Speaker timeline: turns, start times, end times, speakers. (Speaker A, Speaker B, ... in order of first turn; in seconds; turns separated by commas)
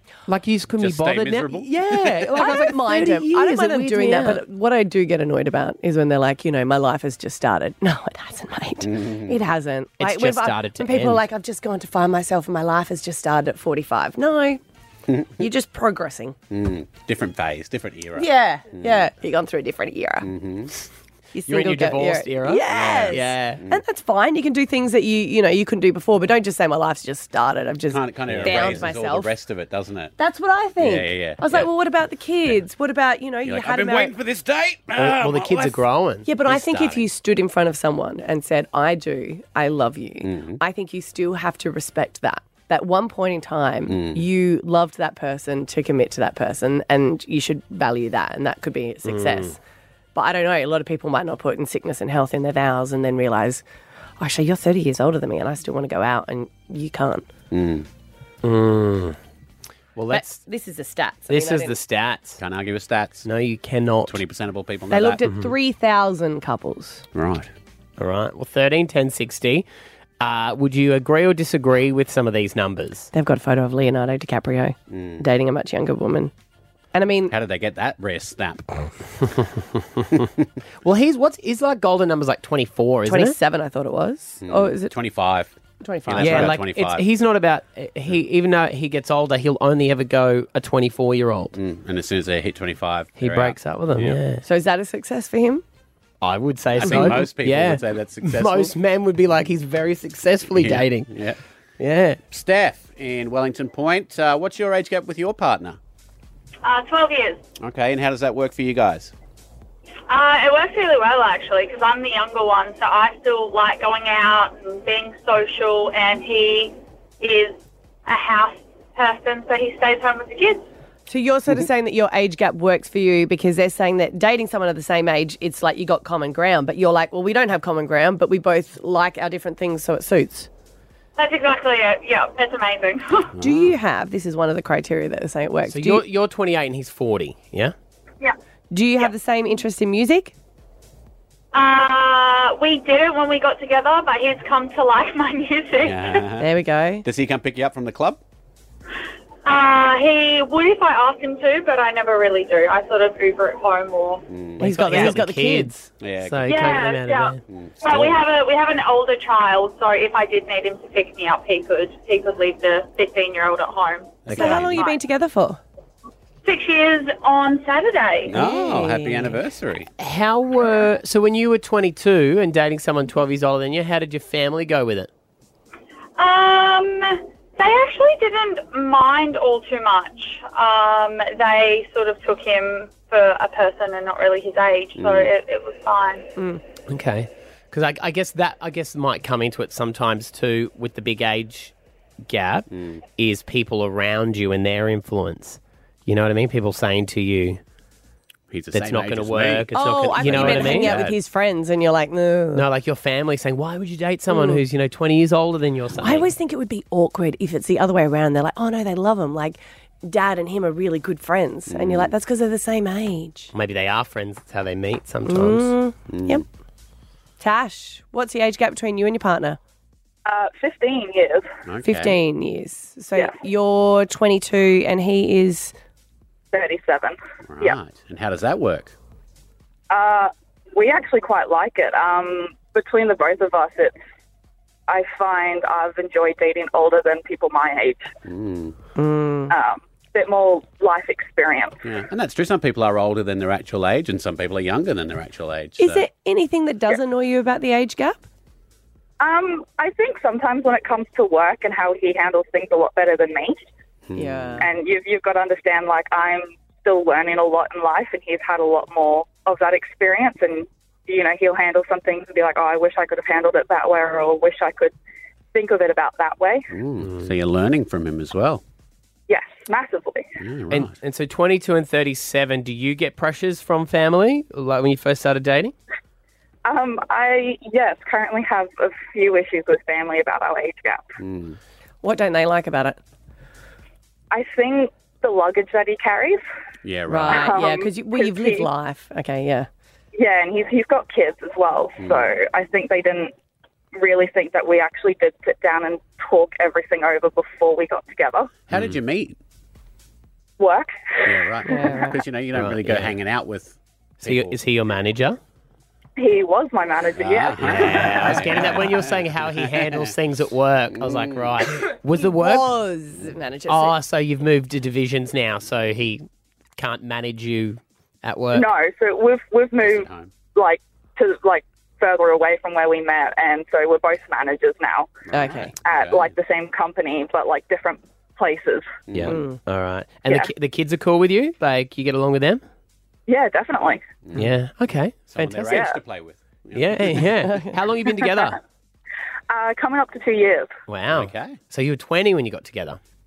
Speaker A: 0.3-4.4, Speaker B: 0.8-2.5, Speaker C: 2.4-14.6, Speaker B: 8.8-9.4, Speaker A: 10.0-11.2, Speaker B: 15.1-15.4, Speaker C: 15.4-16.4, Speaker B: 16.5-19.1, Speaker C: 18.1-20.3, Speaker B: 20.2-20.7, Speaker C: 21.3-29.3, Speaker A: 21.5-23.6, Speaker B: 22.7-23.8, Speaker B: 27.9-30.1, Speaker A: 28.3-28.9, Speaker C: 30.2-34.1, Speaker B: 30.8-31.7, Speaker B: 33.4-35.8, Speaker A: 35.0-36.3, Speaker C: 36.2-49.6, Speaker B: 36.4-37.1, Speaker B: 40.2-40.6, Speaker B: 43.9-44.2, Speaker A: 49.0-49.5, Speaker C: 50.1-53.6, Speaker C: 54.2-57.3, Speaker B: 57.5-57.9, Speaker A: 58.4-59.2, Speaker A: 60.0-60.4, Speaker C: 60.1-61.8, Speaker A: 61.3-62.4, Speaker B: 62.4-63.3, Speaker A: 63.2-64.2, Speaker B: 64.0-65.2, Speaker C: 64.9-67.0, Speaker A: 65.2-65.5, Speaker B: 67.1-67.5, Speaker A: 68.0-69.7, Speaker A: 70.2-73.1, Speaker C: 73.1-76.3, Speaker B: 74.9-75.2, Speaker C: 76.9-77.3, Speaker B: 77.3-78.8, Speaker B: 80.1-80.5, Speaker A: 80.8-83.3, Speaker C: 83.0-84.9, Speaker B: 84.4-87.0, Speaker C: 85.8-86.6, Speaker A: 86.2-91.5, Speaker B: 91.5-94.2, Speaker A: 93.2-94.4, Speaker C: 94.4-95.6, Speaker A: 96.2-101.1, Speaker B: 96.8-98.7, Speaker C: 96.8-97.2, Speaker B: 100.5-101.4, Speaker A: 101.8-102.2, Speaker B: 102.3-105.8, Speaker D: 106.6-107.4, Speaker B: 107.6-109.1, Speaker D: 110.1-120.7, Speaker C: 121.1-130.5, Speaker D: 131.2-133.3, Speaker B: 133.3-133.8, Speaker C: 133.4-136.0, Speaker A: 135.7-137.7, Speaker C: 138.7-140.3, Speaker D: 141.5-146.2, Speaker B: 145.8-148.2, Speaker C: 146.4-147.0, Speaker D: 149.4-154.2, Speaker B: 154.3-155.2, Speaker C: 154.6-155.9, Speaker A: 154.6-157.4, Speaker B: 156.0-156.8, Speaker D: 156.4-165.0, Speaker B: 157.5-158.2, Speaker B: 164.2-164.7, Speaker A: 164.3-164.7, Speaker C: 164.3-165.6, Speaker D: 166.4-168.4, Speaker B: 168.2-169.9, Speaker C: 168.3-169.4, Speaker A: 170.0-175.1, Speaker D: 176.2-186.3, Speaker B: 185.0-185.3, Speaker A: 186.9-191.7, Speaker A: 192.2-197.6, Speaker B: 192.7-193.0, Speaker B: 198.5-201.2, Speaker A: 198.7-201.0, Speaker C: 199.7-202.7, Speaker A: 202.5-206.3, Speaker C: 204.3-204.6, Speaker C: 206.0-213.5, Speaker B: 211.7-212.1, Speaker A: 213.5-215.7, Speaker C: 215.2-216.4, Speaker B: 216.1-216.4, Speaker C: 217.4-219.6, Speaker E: 220.2-221.5, Speaker B: 221.7-222.2, Speaker C: 221.8-225.7, Speaker E: 226.5-227.8, Speaker B: 227.5-228.9, Speaker E: 229.9-233.9, Speaker E: 234.9-238.1, Speaker B: 238.2-238.7, Speaker C: 238.9-239.5, Speaker E: 239.5-241.8, Speaker B: 241.8-246.1, Speaker C: 245.8-248.2, Speaker E: 249.2-253.6, Speaker B: 254.1-254.7, Speaker C: 254.2-254.7, Speaker E: 254.6-264.9, Speaker E: 265.5-266.7, Speaker B: 266.7-268.6, Speaker A: 267.0-267.3, Speaker E: 269.3-270.3, Speaker B: 270.4-270.9, Speaker A: 270.7-275.7, Speaker E: 276.6-281.0, Speaker B: 281.2-281.6, Speaker C: 282.0-283.0, Speaker E: 284.3-286.4, Speaker B: 286.8-287.5, Speaker C: 287.1-289.7, Speaker E: 287.3-288.7, Speaker E: 290.1-293.3, Speaker B: 292.0-292.3, Speaker E: 293.9-298.5, Speaker B: 298.7-299.4, Speaker E: 300.6-301.4, Speaker B: 301.2-304.6, Speaker C: 301.7-302.2, Speaker A: 302.5-303.1, Speaker A: 304.2-305.4, Speaker E: 306.2-308.4, Speaker B: 307.1-310.1, Speaker A: 307.6-312.7, Speaker B: 310.9-311.6, Speaker C: 312.2-314.0, Speaker A: 313.7-316.2, Speaker A: 316.8-318.7, Speaker E: 318.5-325.1, Speaker B: 319.8-320.3, Speaker B: 325.3-326.3, Speaker C: 325.3-325.7, Speaker E: 325.8-328.9, Speaker B: 329.1-329.4, Speaker A: 329.1-332.6, Speaker C: 329.3-329.6, Speaker E: 333.3-334.0, Speaker B: 334.2-334.5, Speaker A: 334.3-335.7, Speaker B: 335.3-337.3, Speaker E: 335.7-336.0, Speaker A: 336.7-338.6, Speaker E: 339.5-340.7, Speaker A: 340.9-343.0, Speaker B: 341.1-341.6